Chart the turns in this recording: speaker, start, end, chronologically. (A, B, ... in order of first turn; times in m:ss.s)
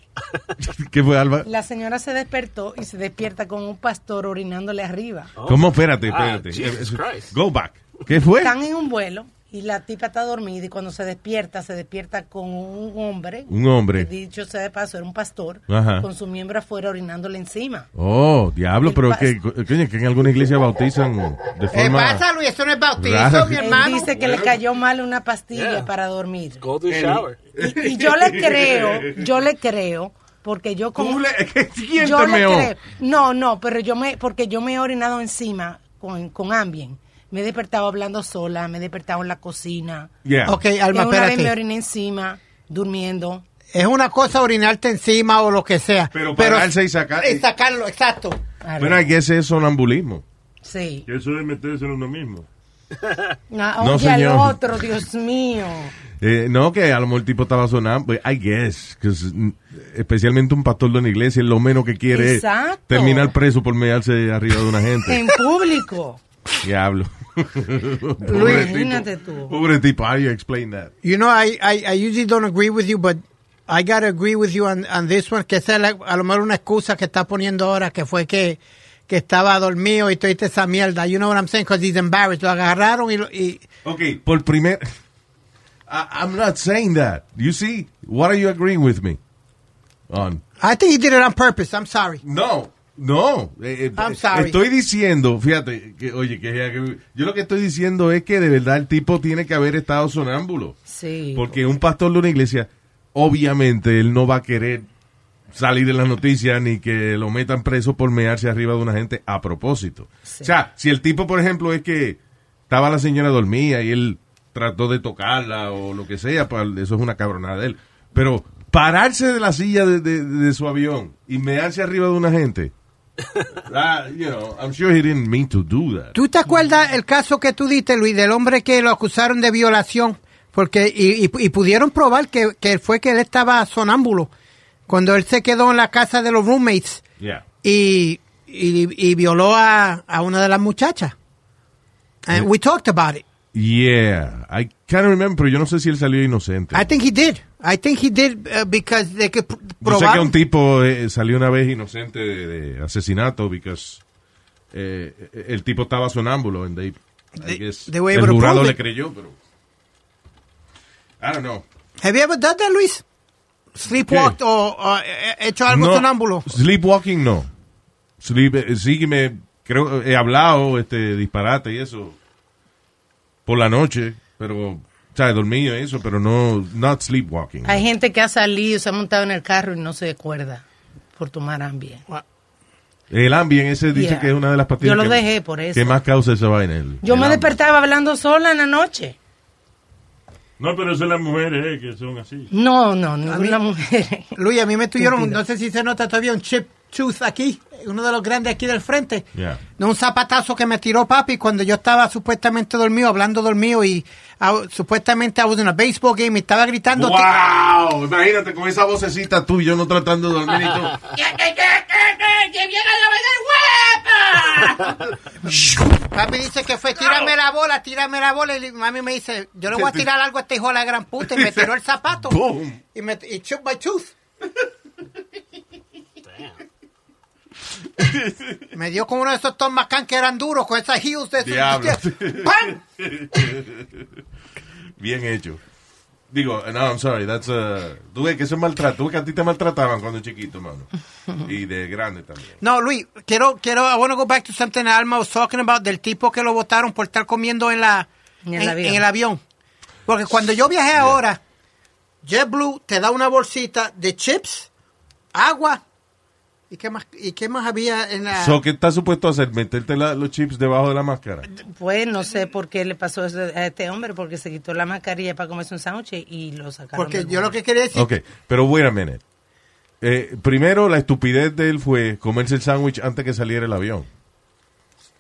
0:00.6-0:01.5 A
0:01.4-0:05.3 B
0:05.4-0:07.3 C
0:05.4-0:08.5 A
0:08.4-0:17.9 B
0:13.5-0:14.1 A
0:15.7-0:16.1 A
0:17.9-0:22.2 A
0:18.8-0:19.3 B
0:21.7-0:24.1 D
0:23.0-0:24.5 A
0:23.6-0:26.6 B
0:25.5-0:25.9 C
0:26.6-0:27.4 C
0:26.9-0:29.3 A
0:27.5-0:31.2 B
0:31.0-0:32.7 A
0:32.0-0:40.1 B
0:40.2-0:40.6 A
0:40.4-0:41.5 D
0:40.9-0:43.4 B
0:43.7-0:48.4 D
0:46.1-0:47.4 A
0:48.6-0:49.0 B
0:48.8-0:50.2 A
0:50.6-0:51.0 B
0:51.1-0:52.5 E
0:53.5-0:55.9 B
0:53.8-0:54.6 A
0:56.2-1:05.2 A
1:02.1-1:03.3 B
1:05.0-1:06.2 B
1:06.6-1:10.9 A
1:08.2-1:08.8 D
1:08.3-1:09.5 B
1:11.0-1:23.6 D
1:23.8-1:24.8 A
1:25.9-1:29.2 A
1:30.1-1:30.4 A
1:30.6-1:32.2 D
1:32.2-1:40.8 A
1:34.0-1:34.6 D
1:40.9-1:41.6 B
1:41.3-1:44.8 A
1:45.5-1:52.2 A
1:50.3-1:50.5 B
1:52.7-2:02.7 A
2:03.7-2:06.1 A
2:06.1-2:14.3 D
2:14.9-2:17.0 D
2:17.6-2:21.1 D
2:22.2-2:23.2 D
2:23.5-2:26.9 A
2:26.7-2:30.3 D
2:29.8-2:34.0 A
2:34.7-2:39.3 A
2:37.4-2:38.8 D
2:41.2-2:41.6 A
2:42.0-2:43.0 D
2:43.7-2:46.6 D
2:44.1-2:44.4 A
2:45.7-2:47.5 A
2:48.2-2:52.2 A
2:53.4-2:57.8 A
2:57.6-3:00.6 B
3:01.2-3:02.0 B
3:03.1-3:07.6 A
3:03.9-3:06.0 B
3:07.0-3:09.2 B
3:10.6-3:12.5 E
3:12.5-3:14.3 B
3:13.3-3:13.6 D
3:14.4-3:27.3 D
3:15.0-3:15.4 B
3:19.4-3:19.6 A
3:26.9-3:36.1 A
3:36.1-3:42.4 D
3:39.7-3:40.1 A
3:41.2-3:41.7 A
3:42.2-3:42.8 A
3:42.9-3:44.1 D
3:46.2-3:46.6 C
3:48.0-3:48.6 A
3:48.7-3:52.8 D
3:51.4-3:54.0 A
3:55.0-3:55.6 A
3:56.3-4:00.9 A
4:01.4-4:02.6 A
4:02.6-4:09.4 D
4:08.4-4:09.0 B
4:10.0-4:11.4 D
4:12.2-4:14.7 D
4:15.3-4:15.8 D
4:16.7-4:18.6 D
4:18.3-4:21.5 A
4:21.6-4:27.5 B
4:26.9-4:28.1 D
4:27.9-4:29.2 A
4:30.0-4:34.1 A